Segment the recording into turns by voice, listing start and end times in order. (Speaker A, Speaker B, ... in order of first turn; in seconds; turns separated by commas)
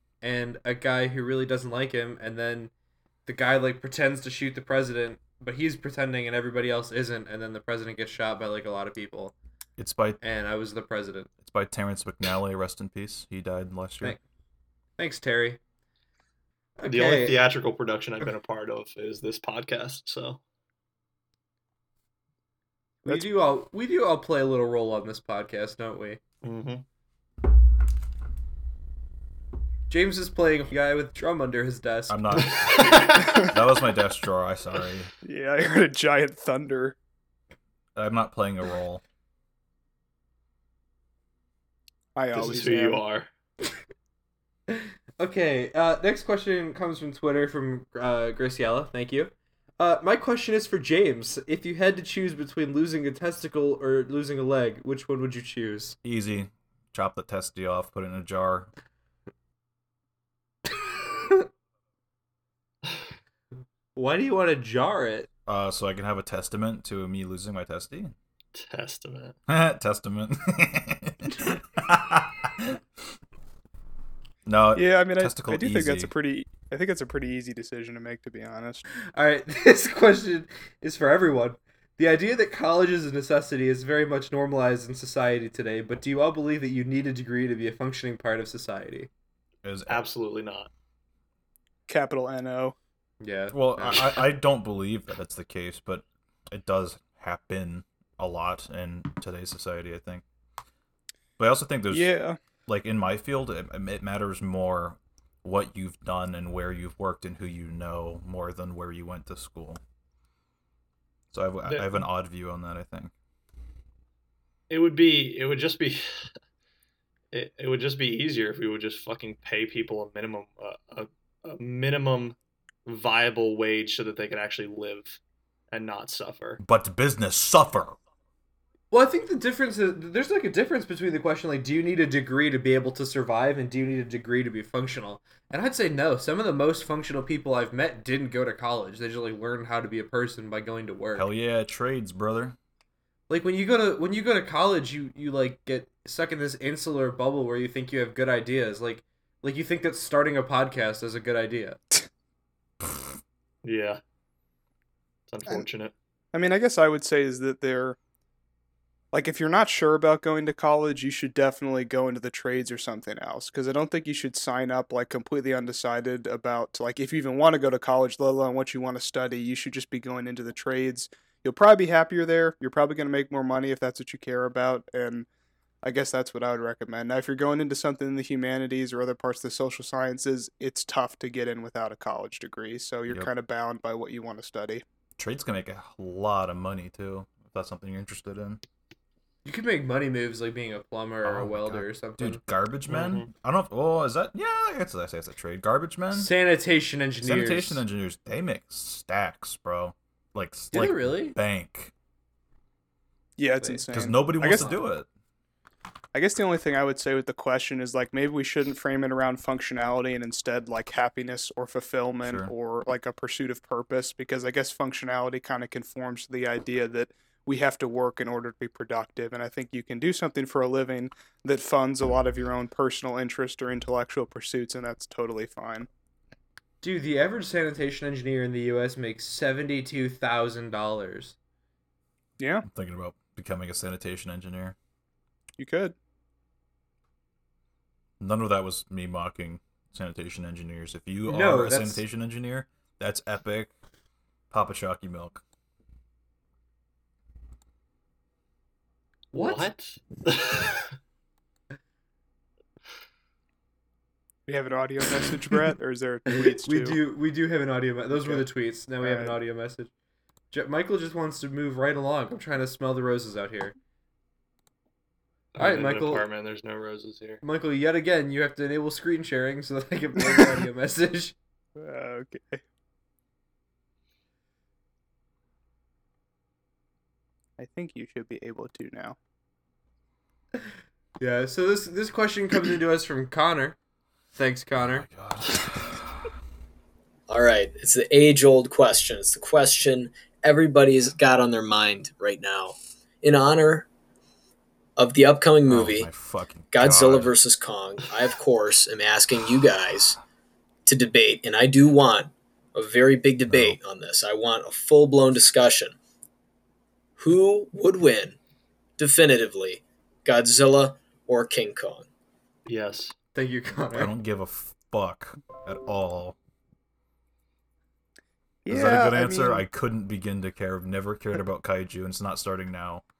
Speaker A: 0.2-2.7, Speaker A: 3.3-9.3, Speaker B: 9.8-10.2, Speaker A: 10.2-11.3, Speaker B: 11.4-14.2, Speaker A: 15.0-15.6, Speaker A: 16.8-17.4, Speaker C: 16.9-20.4, Speaker A: 23.1-26.2, Speaker C: 26.4-26.9, Speaker A: 29.9-32.5, Speaker B: 32.1-35.1, Speaker C: 32.5-33.5, Speaker D: 33.2-33.5, Speaker D: 35.2-37.0, Speaker B: 38.0-39.0, Speaker D: 42.2-43.0, Speaker C: 42.3-43.3, Speaker A: 44.7-56.0, Speaker B: 56.0-58.7, Speaker A: 64.0-65.3, Speaker B: 65.5-68.1, Speaker C: 68.5-69.4, Speaker B: 69.5-72.8, Speaker B: 74.5-76.1, Speaker D: 74.8-78.8, Speaker A: 79.0-89.1, Speaker B: 89.6-90.0, Speaker C: 89.9-90.7, Speaker D: 91.9-92.8, Speaker A: 93.2-94.2, Speaker B: 93.5-100.2, Speaker B: 101.4-102.1, Speaker D: 101.9-102.4, Speaker B: 102.7-109.8, Speaker B: 111.3-113.1, Speaker C: 111.7-112.1, Speaker C: 114.7-116.0, Speaker C: 117.3-125.2, Speaker C: 125.7-126.6, Speaker B: 126.6-128.0, Speaker A: 128.9-141.3, Speaker B: 141.2-142.6, Speaker A: 143.3-151.8, Speaker C: 153.6-154.0, Speaker C: 155.3-155.9, Speaker D: 156.3-158.0, Speaker D: 159.1-175.3, Speaker D: 175.8-184.8, Speaker B: 185.2-188.6, Speaker A: 189.4-192.4, Speaker B: 191.2-196.3, Speaker C: 192.9-193.3, Speaker A: 196.1-197.8, Speaker B: 197.2-201.9, Speaker A: 200.7-201.4, Speaker D: 203.4-204.8, Speaker B: 203.9-205.1, Speaker D: 206.1-225.9, Speaker B: 212.2-212.5, Speaker A: 226.8-231.4, Speaker D: 232.4-232.7, Speaker B: 232.7-234.8, Speaker D: 235.6-235.9, Speaker B: 238.2-243.7, Speaker A: 241.3-242.0, Speaker B: 244.5-245.4, Speaker A: 249.3-249.7, Speaker C: 249.3-250.9, Speaker D: 254.5-257.0, Speaker A: 256.3-259.9, Speaker D: 258.2-258.5, Speaker D: 259.0-259.4, Speaker A: 260.5-263.8, Speaker C: 265.6-267.4, Speaker A: 265.6-266.2, Speaker A: 267.4-271.4, Speaker D: 271.8-272.6, Speaker D: 277.6-279.2, Speaker A: 281.2-283.8, Speaker A: 284.4-285.1, Speaker B: 284.8-286.2, Speaker E: 287.3-293.9, Speaker E: 295.0-296.1, Speaker B: 295.7-297.4, Speaker E: 296.7-300.2, Speaker E: 300.9-306.0, Speaker B: 303.5-303.8, Speaker E: 307.2-308.4, Speaker E: 309.0-312.1, Speaker C: 312.7-313.1, Speaker A: 313.3-314.1, Speaker B: 313.9-316.4, Speaker D: 318.6-319.7, Speaker B: 318.7-323.0